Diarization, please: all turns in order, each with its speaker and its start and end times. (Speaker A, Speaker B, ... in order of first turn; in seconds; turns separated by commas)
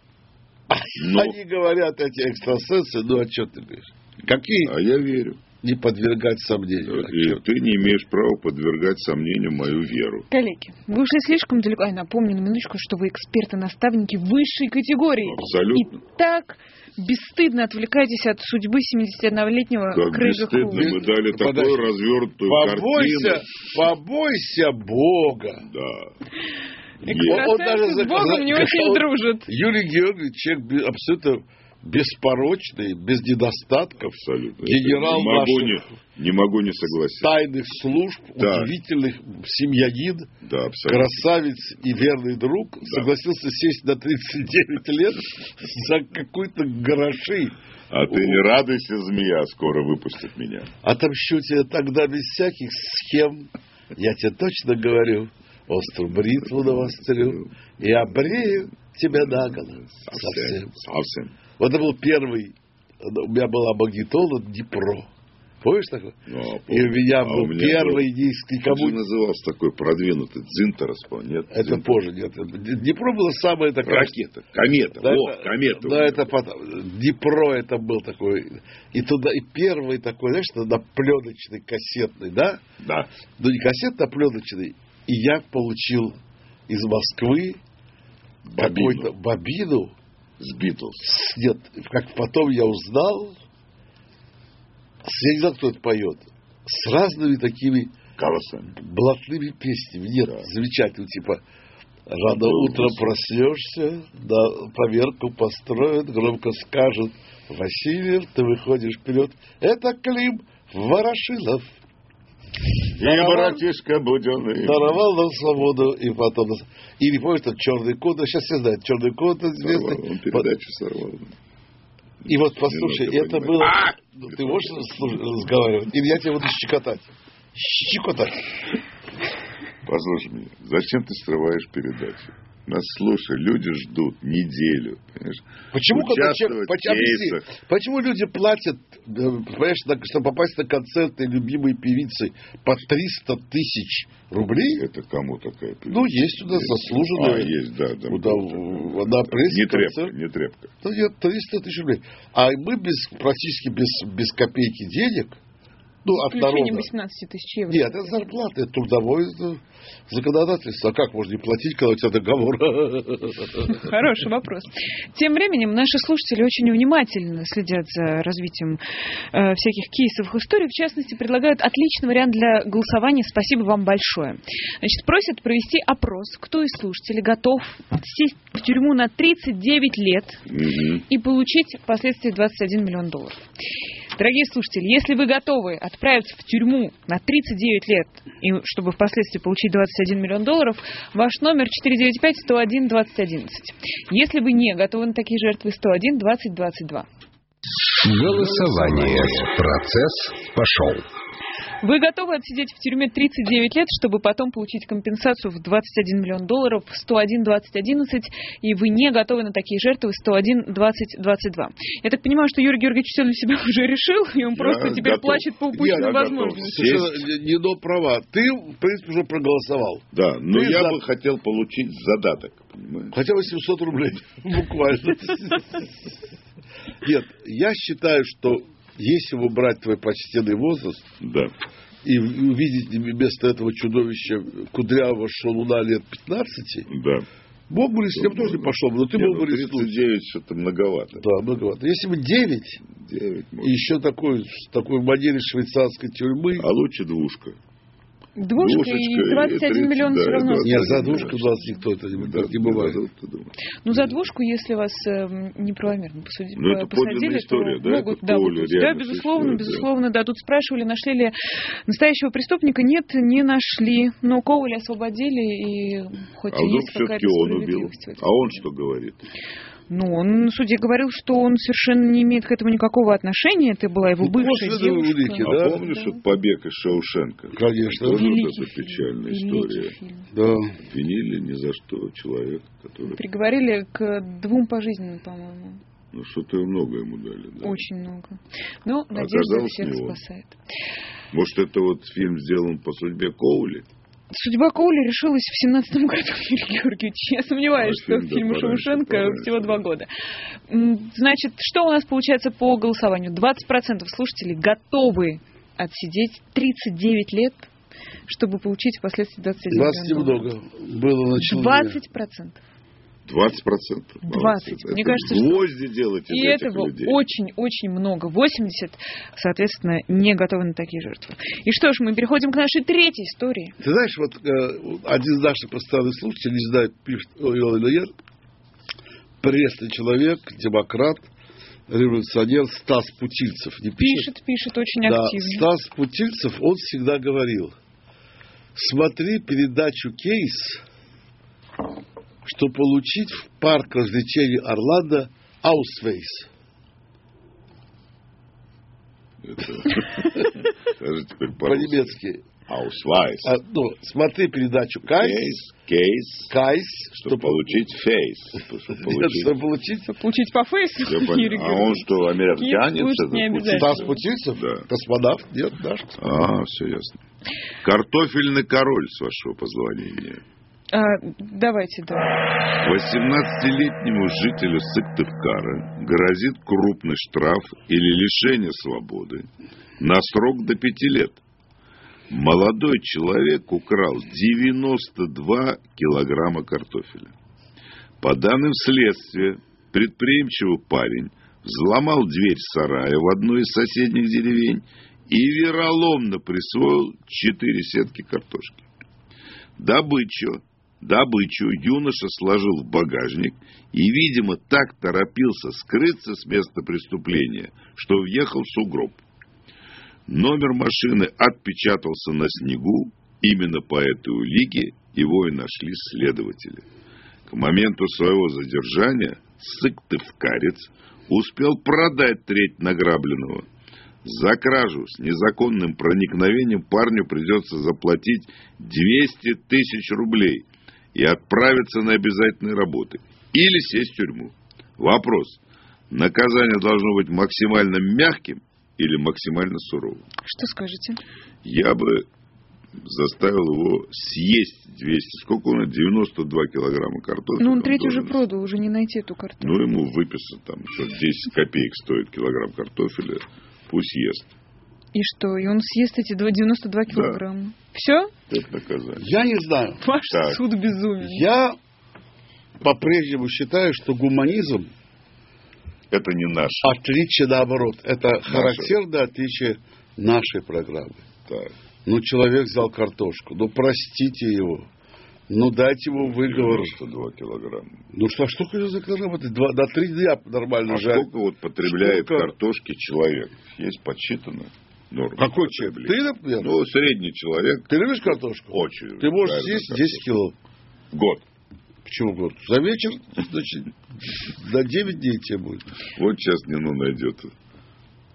Speaker A: 0.7-4.8, Speaker B: 1.0-1.4, Speaker B: 4.6-5.4, Speaker A: 5.6-7.4, Speaker B: 6.9-10.3, Speaker C: 10.3-21.0, Speaker B: 15.2-16.0, Speaker B: 19.9-23.5, Speaker A: 20.8-21.9, Speaker A: 22.4-25.7, Speaker B: 25.7-26.1, Speaker B: 27.0-27.5, Speaker A: 27.0-34.1, Speaker C: 27.1-29.5, Speaker B: 34.0-37.4, Speaker A: 34.6-35.9, Speaker A: 37.2-40.3, Speaker B: 38.4-38.7, Speaker B: 40.4-41.3, Speaker A: 40.9-47.6, Speaker B: 42.9-43.1, Speaker B: 47.9-50.7, Speaker A: 48.1-48.4, Speaker A: 50.8-60.7, Speaker B: 56.4-57.5, Speaker B: 59.1-61.4, Speaker A: 61.6-65.1, Speaker A: 65.6-69.0, Speaker B: 66.3-68.1, Speaker B: 68.7-72.0, Speaker A: 71.5-74.2, Speaker B: 73.8-76.3, Speaker A: 75.0-82.6, Speaker B: 82.8-83.1, Speaker A: 83.4-87.6, Speaker B: 88.5-89.1, Speaker A: 88.6-89.9, Speaker B: 90.4-91.1, Speaker A: 91.0-93.4, Speaker A: 95.0-97.9, Speaker B: 98.2-98.8, Speaker A: 98.8-101.4, Speaker A: 102.1-111.7, Speaker B: 102.2-103.2, Speaker A: 112.9-113.6, Speaker B: 113.0-115.0, Speaker A: 114.6-120.5, Speaker B: 119.6-121.3, Speaker B: 122.2-125.1, Speaker A: 122.3-128.5, Speaker B: 129.8-137.5, Speaker A: 135.7-144.9, Speaker B: 144.7-150.7, Speaker A: 145.9-147.5, Speaker A: 148.1-150.1, Speaker A: 150.8-155.4, Speaker A: 156.1-156.9, Speaker C: 156.1-158.4, Speaker A: 157.7-163.8, Speaker C: 163.7-168.8, Speaker C: 169.3-180.4, Speaker B: 180.5-181.1, Speaker C: 181.1-183.4, Speaker C: 184.2-197.1, Speaker D: 198.0-201.1, Speaker C: 201.8-217.1, Speaker B: 214.5-217.2, Speaker A: 215.8-221.0, Speaker B: 220.1-223.2, Speaker A: 223.1-226.1, Speaker A: 227.0-231.1, Speaker B: 231.2-231.5, Speaker A: 232.0-236.9, Speaker B: 236.9-237.3, Speaker A: 237.7-239.9, Speaker B: 238.1-241.2, Speaker A: 241.2-242.8, Speaker B: 242.8-243.8, Speaker A: 243.6-246.7, Speaker B: 246.6-247.6, Speaker C: 248.4-251.5, Speaker B: 248.6-251.6, Speaker A: 250.6-253.0, Speaker B: 252.1-253.5, Speaker C: 253.8-261.4, Speaker B: 256.6-259.9, Speaker C: 261.9-268.6, Speaker B: 266.5-269.3, Speaker C: 269.9-276.2, Speaker A: 274.2-275.8, Speaker B: 275.4-279.9, Speaker A: 277.5-278.3, Speaker C: 278.1-280.3, Speaker A: 280.3-280.8, Speaker B: 280.8-283.2, Speaker C: 283.1-285.8, Speaker B: 286.1-287.9, Speaker C: 287.6-290.6, Speaker B: 289.1-290.2, Speaker B: 291.3-293.9, Speaker C: 294.3-300.1, Speaker B: 297.8-299.8, Speaker C: 300.7-307.7, Speaker C: 308.3-310.5, Speaker A: 309.7-312.0, Speaker C: 311.4-312.6, Speaker B: 313.3-317.2, Speaker C: 314.2-315.7, Speaker C: 316.3-323.8, Speaker A: 323.8-328.1, Speaker A: 329.4-331.3, Speaker A: 331.9-334.3, Speaker C: 334.0-335.7, Speaker A: 335.0-337.7, Speaker A: 338.8-340.8, Speaker A: 342.4-346.5, Speaker B: 349.4-353.5, Speaker A: 351.6-352.5, Speaker A: 353.4-355.6, Speaker B: 355.1-356.5, Speaker A: 356.5-357.6, Speaker B: 357.1-359.6, Speaker A: 358.9-360.1, Speaker C: 360.1-364.2, Speaker B: 361.1-364.9, Speaker A: 363.7-366.2, Speaker B: 366.2-367.2, Speaker B: 367.8-370.4, Speaker C: 370.9-372.3, Speaker B: 372.8-379.5, Speaker B: 380.0-381.4, Speaker B: 382.3-387.3, Speaker B: 388.2-398.9, Speaker B: 399.8-409.2, Speaker B: 410.3-416.9, Speaker B: 417.5-423.7, Speaker B: 424.2-435.6, Speaker B: 436.1-440.3, Speaker C: 440.4-441.2, Speaker B: 441.6-442.3, Speaker B: 443.0-448.4, Speaker C: 447.6-449.8, Speaker B: 449.6-454.5, Speaker C: 455.1-458.3, Speaker B: 457.1-457.4, Speaker B: 458.5-459.2, Speaker A: 459.2-460.0, Speaker C: 460.0-461.5, Speaker B: 460.3-460.6, Speaker A: 461.2-461.8, Speaker A: 462.8-464.9, Speaker B: 466.1-466.9, Speaker A: 466.8-471.2, Speaker B: 468.5-468.9, Speaker B: 471.5-471.7, Speaker A: 472.1-474.9, Speaker A: 475.5-476.9, Speaker B: 476.2-478.0, Speaker A: 478.1-481.3, Speaker B: 480.9-490.2, Speaker A: 481.8-482.5, Speaker A: 485.4-486.7, Speaker A: 487.9-490.6, Speaker B: 491.1-491.4, Speaker A: 492.1-495.9, Speaker B: 496.1-497.5